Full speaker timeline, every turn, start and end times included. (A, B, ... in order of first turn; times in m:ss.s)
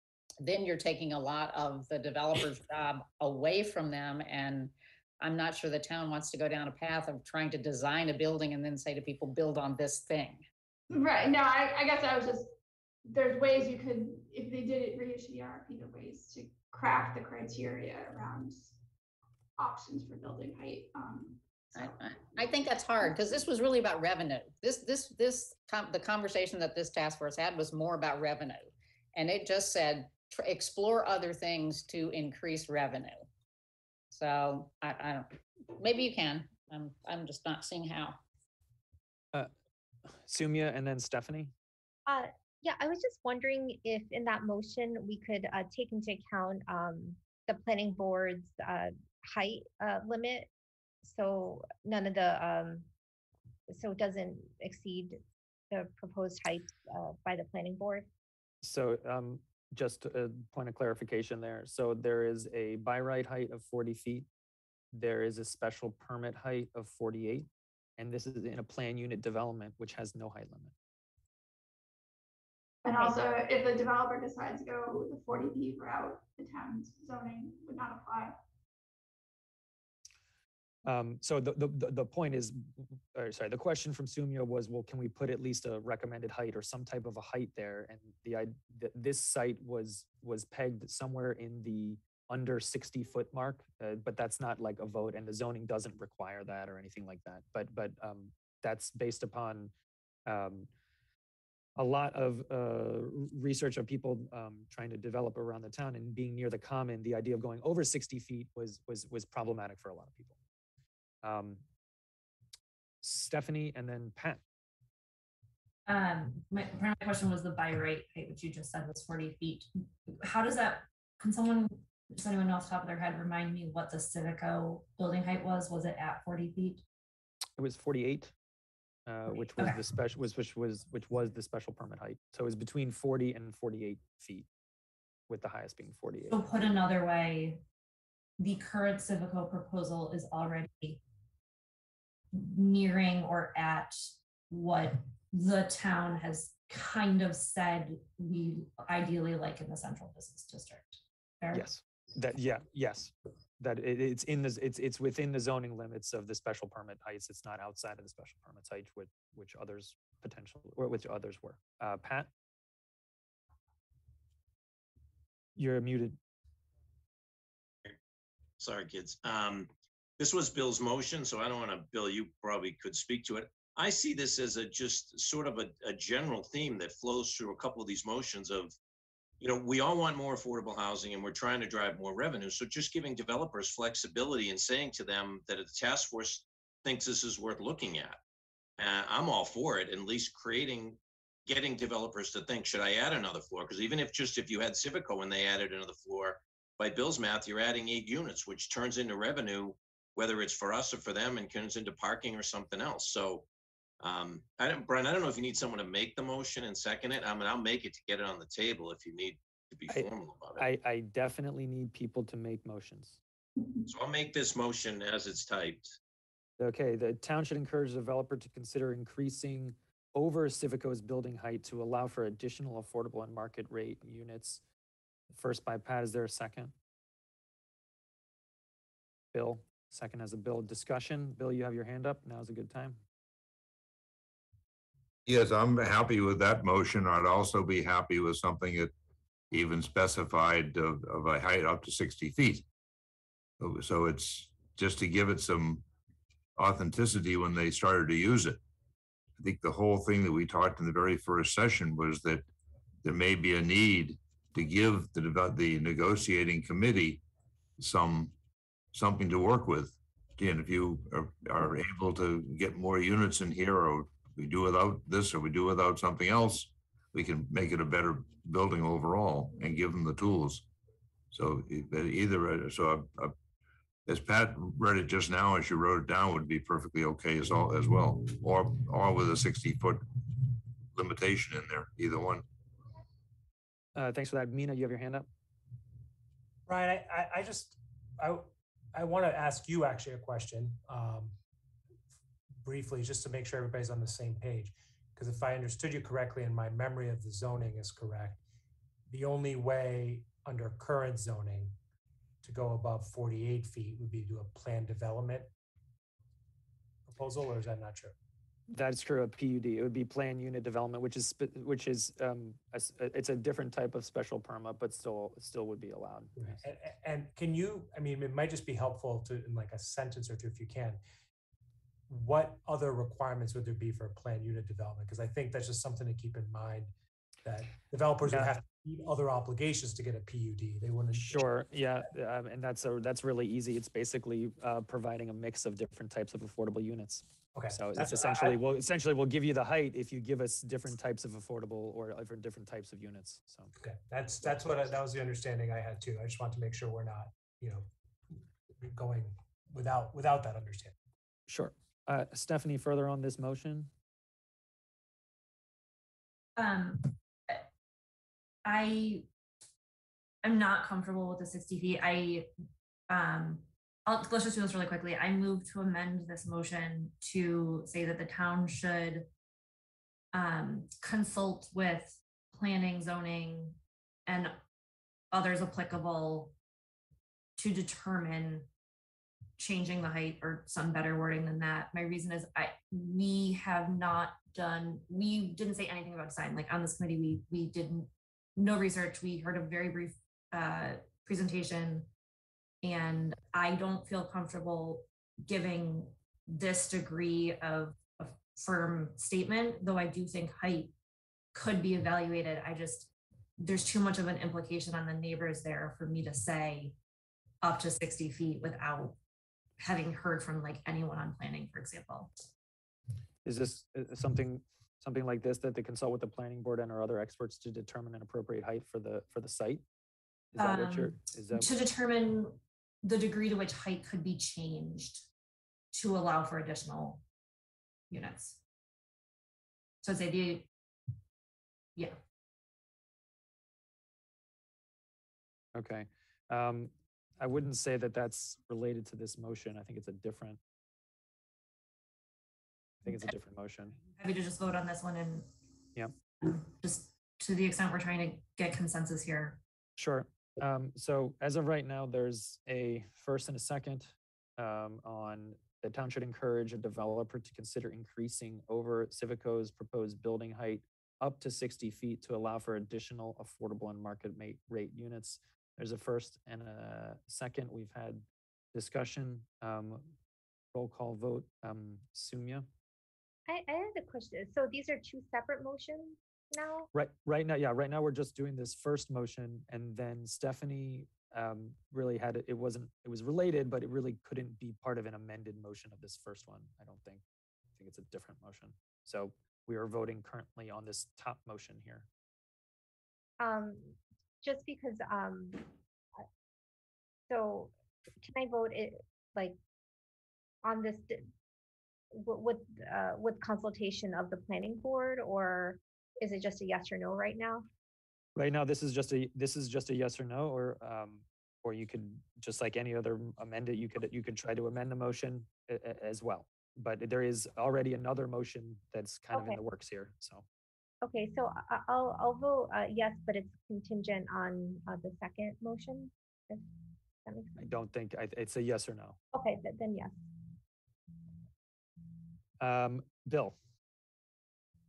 0:00.4-0:10.5 A
0:10.9-0:12.5 B
0:13.1-0:18.8 B
0:19.6-0:21.9 B
0:21.8-0:33.3 A
0:34.1-0:38.2 A
0:40.1-0:41.5 C
0:42.1-0:50.5 D
0:51.0-0:52.9 D
0:53.7-0:55.2 D
0:55.7-0:58.1 D
0:58.6-1:04.3 C
1:04.9-1:07.5 C
1:08.0-1:10.7 C
1:12.8-1:18.4 B
1:12.9-1:13.2 D
1:20.9-1:39.7 C
1:40.3-1:40.7 C
1:41.8-1:50.4 C
1:51.2-1:51.6 C
1:53.0-1:54.4 C
1:55.9-2:06.8 E
2:07.6-2:08.3 C
2:09.1-2:14.5 C
2:15.3-2:16.4 C
2:16.3-2:17.6 E
2:18.4-2:21.0 E
2:22.3-2:31.7 E
2:31.5-2:42.3 C
2:45.6-2:46.2 C
2:48.6-2:58.8 F
2:59.4-3:08.2 F
3:08.8-3:23.5 F
3:24.0-3:30.6 F
3:29.9-3:33.2 C
3:33.9-3:35.9 F
3:36.6-3:44.6 C
3:45.3-3:46.7 C
3:49.3-3:53.0 C
3:55.3-3:58.9 G
3:59.5-4:02.7 G
4:03.6-4:05.8 G
4:06.6-4:08.6 G
4:09.4-4:12.5 G
4:13.0-4:17.2 G
4:17.8-4:18.3 G
4:18.9-4:30.6 G
4:31.3-4:33.3 G
4:34.1-4:42.4 G
4:44.0-4:45.3 C
4:46.7-4:51.3 H
4:52.6-4:58.4 H
4:59.1-5:01.8 H
5:02.4-5:05.5 H
5:07.1-5:08.1 H
5:08.7-5:16.6 C
5:16.4-5:21.0 H
5:22.1-5:26.9 H
5:27.4-5:31.4 H
5:28.3-5:28.5 C
5:31.1-5:43.7 C
5:37.6-5:38.6 H
5:43.8-5:47.9 H
5:48.8-5:50.9 H
5:51.5-5:53.9 C
5:56.6-5:57.6 E
5:58.6-5:59.3 E
6:00.4-6:02.5 E
6:03.1-6:09.3 E
6:10.3-6:14.6 E
6:15.3-6:16.5 E
6:17.6-6:18.7 E
6:19.6-6:32.1 E
6:32.8-6:40.9 E
6:41.5-6:47.0 E
6:47.6-6:49.2 E
6:49.8-6:52.3 E
6:53.4-6:59.8 C
7:00.5-7:01.7 C
7:00.6-7:05.3 E
7:05.9-7:07.2 E
7:08.1-7:08.6 E
7:10.0-7:10.7 E
7:15.8-7:20.6 C
7:23.0-7:24.0 C
7:24.2-7:25.5 E
7:26.4-7:29.6 E
7:30.0-7:50.1 C
7:50.7-7:52.7 C
7:53.5-7:56.9 D
7:56.9-8:07.2 C
8:07.8-8:12.1 C
8:13.4-8:15.7 D
8:17.3-8:19.6 D
8:20.6-8:21.3 D
8:22.1-8:27.7 D
8:28.4-8:40.4 C
8:39.3-8:39.6 D
8:41.0-8:46.7 D
8:47.2-8:47.7 D
8:47.6-8:49.2 C
8:49.3-8:50.2 D
8:52.6-8:53.6 C